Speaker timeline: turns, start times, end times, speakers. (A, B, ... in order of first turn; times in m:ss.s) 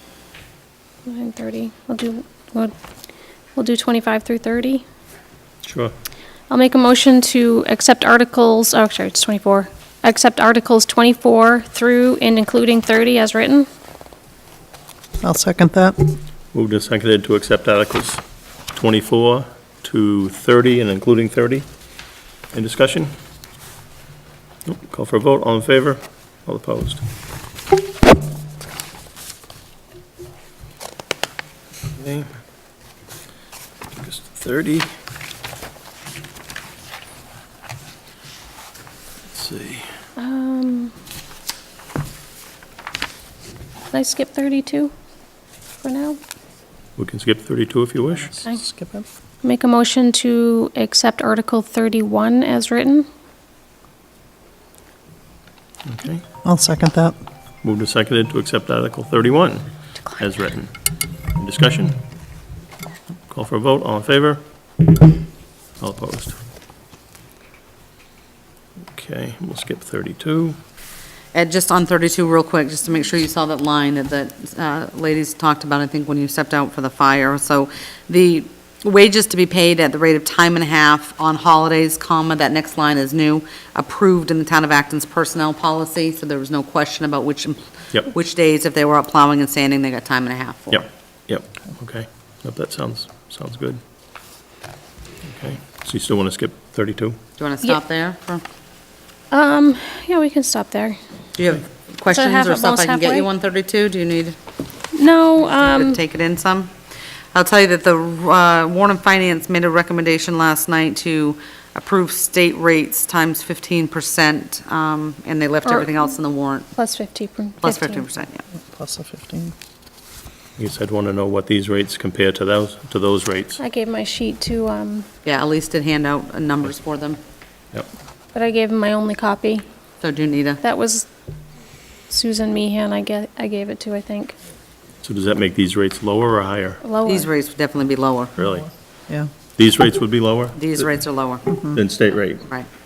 0:01.0-0:02.7 A
0:03.6-0:04.8 A
0:05.6-0:05.9 B
0:06.5-0:13.7 A
0:15.2-0:16.1 C
0:16.5-0:21.7 B
0:22.5-0:23.1 B
0:24.7-0:27.0 B
0:32.0-0:32.3 B
0:34.0-0:34.9 B
0:39.3-0:39.9 B
0:40.2-0:40.9 A
0:43.9-0:44.9 A
0:45.8-0:46.2 A
0:47.0-0:48.4 B
0:48.5-0:49.1 C
0:49.4-0:53.1 A
0:55.8-0:56.2 B
0:56.4-0:57.2 C
0:57.6-1:00.7 B
1:01.3-1:02.0 B
1:03.3-1:04.4 B
1:05.8-1:06.4 B
1:08.9-1:10.6 B
1:11.3-1:30.8 D
1:30.7-1:33.8 B
1:35.2-1:37.2 B
1:37.4-1:38.4 D
1:39.3-1:41.0 A
1:41.4-1:44.4 D
1:42.1-1:43.3 A
1:44.9-1:46.0 A
1:45.7-1:46.7 D
1:47.3-1:56.7 D
1:55.6-1:56.1 A
1:56.8-1:58.1 A
1:57.6-1:58.4 D
1:58.5-1:59.5 C
2:00.6-2:03.6 B
2:03.6-2:05.1 A
2:05.2-2:07.2 D
2:08.3-2:09.7 A
2:10.0-2:10.6 D
2:10.6-2:11.1 A
2:12.1-2:14.3 A
2:15.0-2:16.8 B
2:16.8-2:17.3 A
2:17.0-2:18.3 D
2:18.4-2:18.7 B
2:19.6-2:20.8 B
2:20.6-2:21.5 D
2:21.7-2:22.5 B